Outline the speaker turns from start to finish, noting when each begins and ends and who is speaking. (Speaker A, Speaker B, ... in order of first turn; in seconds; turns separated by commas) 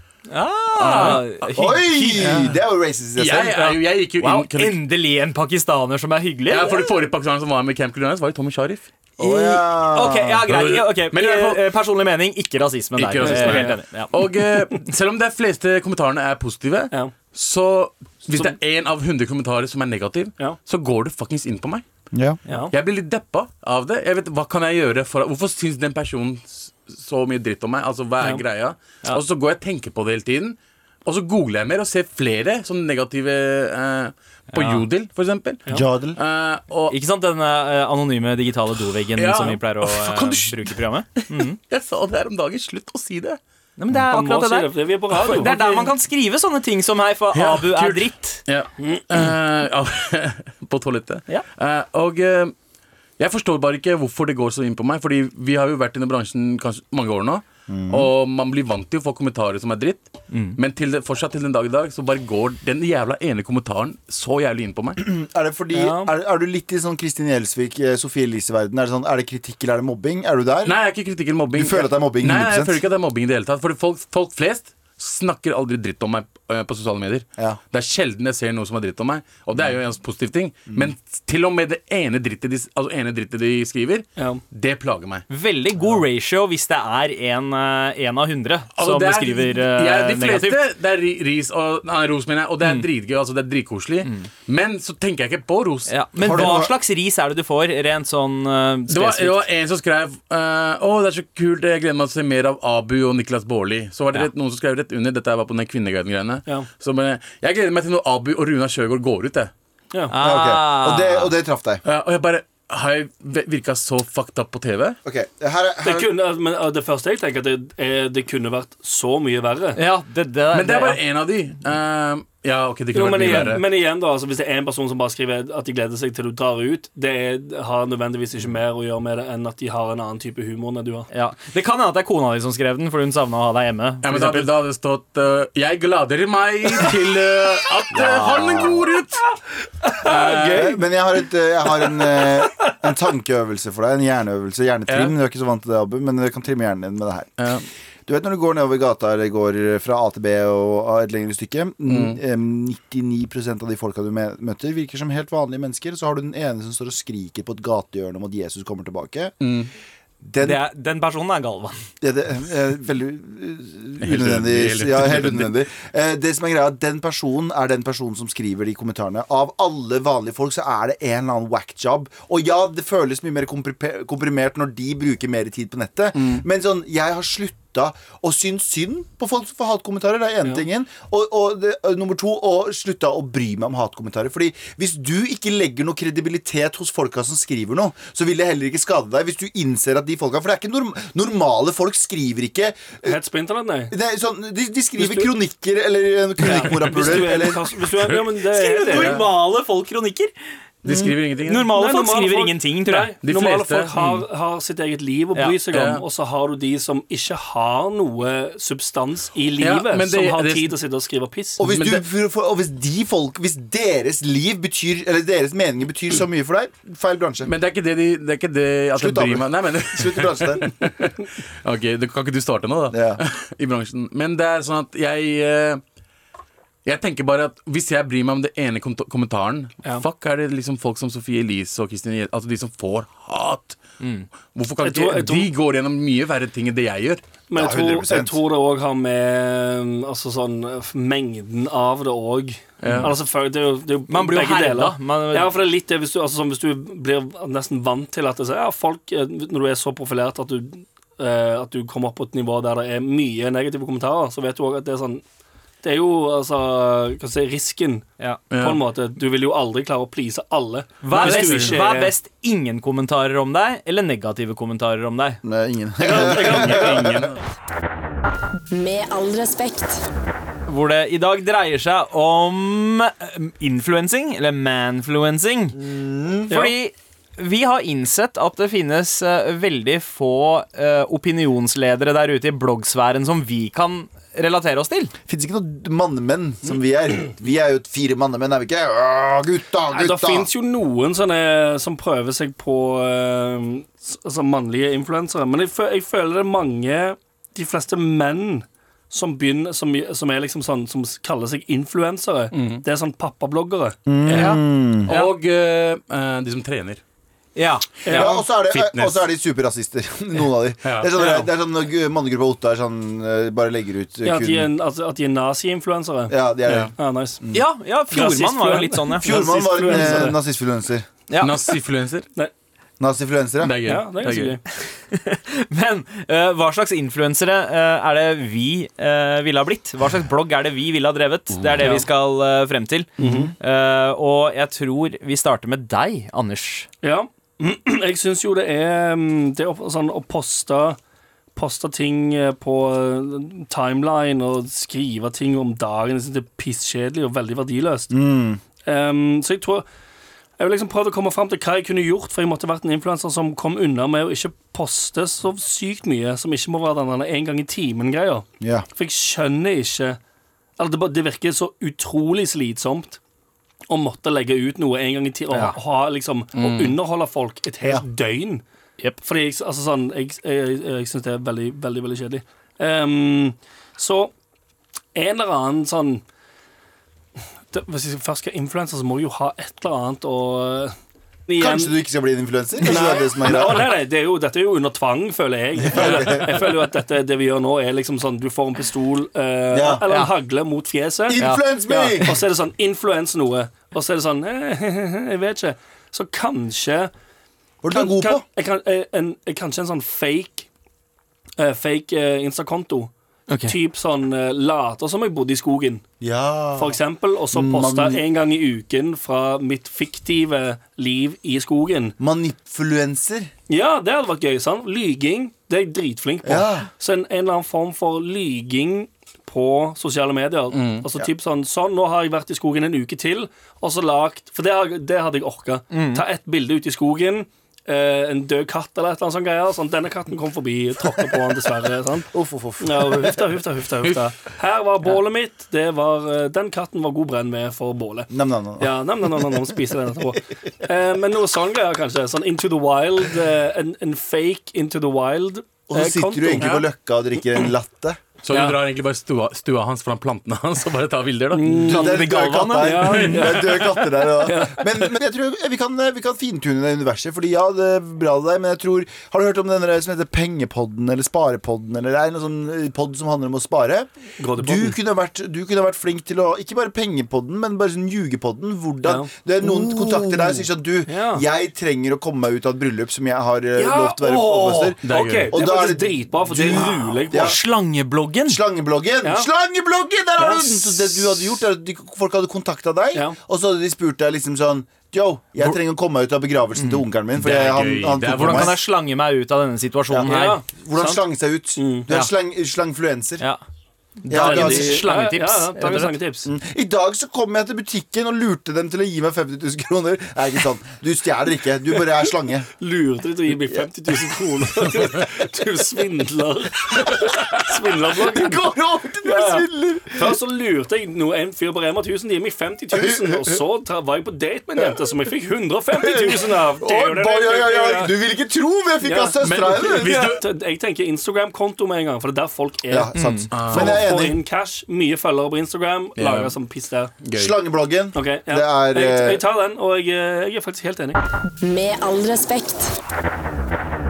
Speaker A: 0.3-2.5, Speaker B: 0.8-1.5, Speaker C: 1.6-3.8, Speaker B: 3.2-4.8, Speaker A: 4.2-6.9, Speaker B: 6.5-8.8, Speaker A: 9.2-14.1, Speaker C: 9.2-10.4, Speaker B: 10.5-11.6, Speaker B: 13.0-21.8, Speaker D: 13.2-13.8, Speaker C: 22.1-22.4, Speaker B: 22.7-36.9, Speaker A: 34.5-34.8, Speaker C: 35.7-36.2, Speaker A: 36.9-41.6, Speaker B: 39.1-43.4, Speaker A: 43.8-48.4, Speaker D: 44.1-45.5, Speaker B: 45.2-45.9, Speaker B: 47.3-52.5, Speaker B: 53.2-65.0, Speaker C: 57.7-58.1, Speaker A: 60.3-60.6, Speaker C: 65.0-70.8, Speaker D: 65.7-66.1, Speaker B: 70.6-85.2, Speaker C: 71.5-72.8, Speaker A: 85.3-90.6, Speaker B: 88.8-96.6, Speaker A: 95.9-99.4, Speaker C: 96.2-96.7, Speaker B: 98.9-109.5, Speaker A: 110.1-111.3, Speaker C: 110.2-111.8, Speaker B: 111.8-115.0, Speaker C: 115.0-116.1, Speaker D: 115.8-119.8, Speaker A: 119.7-121.0, Speaker B: 120.5-123.6, Speaker D: 122.9-131.1, Speaker A: 123.2-123.5, Speaker A: 131.1-134.5, Speaker B: 134.0-139.3, Speaker C: 137.9-138.8, Speaker D: 139.9-140.6, Speaker B: 139.9-140.8, Speaker C: 140.5-147.3, Speaker B: 144.9-145.1, Speaker B: 147.4-147.7, Speaker C: 148.1-159.3, Speaker B: 151.9-152.2, Speaker B: 159.4-159.7, Speaker C: 160.2-160.6, Speaker A: 160.4-161.8, Speaker C: 162.0-193.2, Speaker B: 164.0-165.5, Speaker B: 176.1-176.4, Speaker D: 193.0-193.9, Speaker C: 193.9-197.6, Speaker D: 195.0-195.3, Speaker B: 196.5-197.3, Speaker D: 196.5-199.2, Speaker B: 197.9-198.2, Speaker A: 198.4-200.3, Speaker B: 198.9-199.2, Speaker B: 200.8-201.7, Speaker C: 200.8-201.2, Speaker A: 201.4-203.1, Speaker D: 201.7-211.6, Speaker B: 203.2-203.9, Speaker A: 203.9-204.2, Speaker B: 205.7-206.0, Speaker B: 209.6-210.7, Speaker C: 211.6-217.5, Speaker B: 211.6-212.0, Speaker B: 217.4-225.8, Speaker C: 218.9-220.7, Speaker C: 222.9-223.2, Speaker B: 226.8-233.8, Speaker A: 234.0-234.3, Speaker B: 234.5-237.2, Speaker D: 234.8-235.5, Speaker D: 237.5-255.2, Speaker C: 237.5-238.4, Speaker B: 242.8-243.1, Speaker A: 244.1-245.5, Speaker D: 255.8-262.1, Speaker B: 258.5-258.8, Speaker A: 261.0-265.4, Speaker B: 261.1-261.8, Speaker C: 265.4-267.3, Speaker D: 266.0-267.4, Speaker B: 266.7-266.9, Speaker E: 268.7-270.0, Speaker A: 270.7-275.8, Speaker C: 275.8-276.5, Speaker A: 276.5-285.1, Speaker D: 276.5-276.7, Speaker C: 285.3-290.5, Speaker D: 289.9-304.0, Speaker B: 302.5-302.8, Speaker C: 304.1-305.1, Speaker A: 304.3-305.3, Speaker B: 304.3-307.0, Speaker A: 307.6-308.2, Speaker D: 308.0-308.4, Speaker C: 308.1-314.7, Speaker B: 308.7-309.2, Speaker B: 310.8-311.5, Speaker D: 314.2-316.3, Speaker C: 316.3-317.6, Speaker B: 316.6-316.9, Speaker D: 317.0-317.4, Speaker A: 317.5-320.2, Speaker D: 318.1-320.4, Speaker C: 319.2-321.1, Speaker A: 321.3-321.5, Speaker B: 321.4-322.3, Speaker C: 323.0-323.8, Speaker B: 323.6-324.6, Speaker D: 323.9-324.6, Speaker A: 324.7-336.9, Speaker D: 331.8-332.1, Speaker D: 333.2-333.5, Speaker C: 333.2-333.5, Speaker D: 337.0-341.0, Speaker D: 341.6-348.1, Speaker C: 348.1-348.6, Speaker D: 348.8-349.9, Speaker D: 350.6-360.2, Speaker C: 358.6-358.9, Speaker D: 360.8-363.2, Speaker D: 363.9-368.6, Speaker B: 366.6-366.9, Speaker D: 369.2-374.3, Speaker D: 375.1-376.2, Speaker D: 377.7-380.9, Speaker D: 381.5-381.9, Speaker C: 381.6-383.9, Speaker D: 382.8-397.1, Speaker C: 385.8-386.6, Speaker B: 385.9-386.6, Speaker C: 389.7-390.0, Speaker A: 390.1-390.3, Speaker C: 391.3-392.4, Speaker C: 397.8-398.4, Speaker D: 397.9-400.7, Speaker D: 401.6-403.1, Speaker A: 403.5-403.7, Speaker D: 403.6-406.0, Speaker C: 406.2-407.0, Speaker D: 406.8-412.1, Speaker C: 407.5-408.2, Speaker C: 412.2-413.5, Speaker D: 413.7-446.7, Speaker C: 416.4-416.9, Speaker B: 420.7-421.0, Speaker A: 425.9-426.2, Speaker C: 432.3-433.5, Speaker B: 434.0-434.3, Speaker C: 438.3-439.8, Speaker C: 445.9-448.2, Speaker B: 446.6-446.9, Speaker B: 448.4-451.8, Speaker D: 448.5-448.8, Speaker D: 451.5-455.1, Speaker C: 451.8-477.6, Speaker A: 451.9-453.0, Speaker B: 453.0-454.0, Speaker D: 464.4-464.9, Speaker D: 469.0-469.3, Speaker D: 471.1-471.4, Speaker D: 473.8-477.6, Speaker B: 475.0-475.5, Speaker A: 476.5-478.6, Speaker C: 478.5-488.8, Speaker D: 479.2-479.5, Speaker D: 480.4-481.5, Speaker A: 486.8-487.0, Speaker B: 487.4-488.7, Speaker A: 488.3-491.2, Speaker C: 490.1-493.4, Speaker D: 490.3-490.6, Speaker D: 491.8-492.1, Speaker A: 494.2-496.1, Speaker C: 494.3-495.0, Speaker D: 494.3-496.5, Speaker C: 496.4-502.7, Speaker D: 502.8-508.6, Speaker C: 504.6-505.2, Speaker C: 508.1-510.4, Speaker D: 509.2-518.1, Speaker C: 512.9-513.6, Speaker C: 515.9-520.2, Speaker D: 519.0-523.1, Speaker B: 519.4-520.5, Speaker C: 522.9-524.4, Speaker A: 523.1-523.5, Speaker B: 523.5-524.0, Speaker D: 523.6-527.1, Speaker B: 526.2-526.5, Speaker B: 527.2-527.5, Speaker C: 527.3-529.4, Speaker D: 528.1-531.2, Speaker E: 531.6-533.0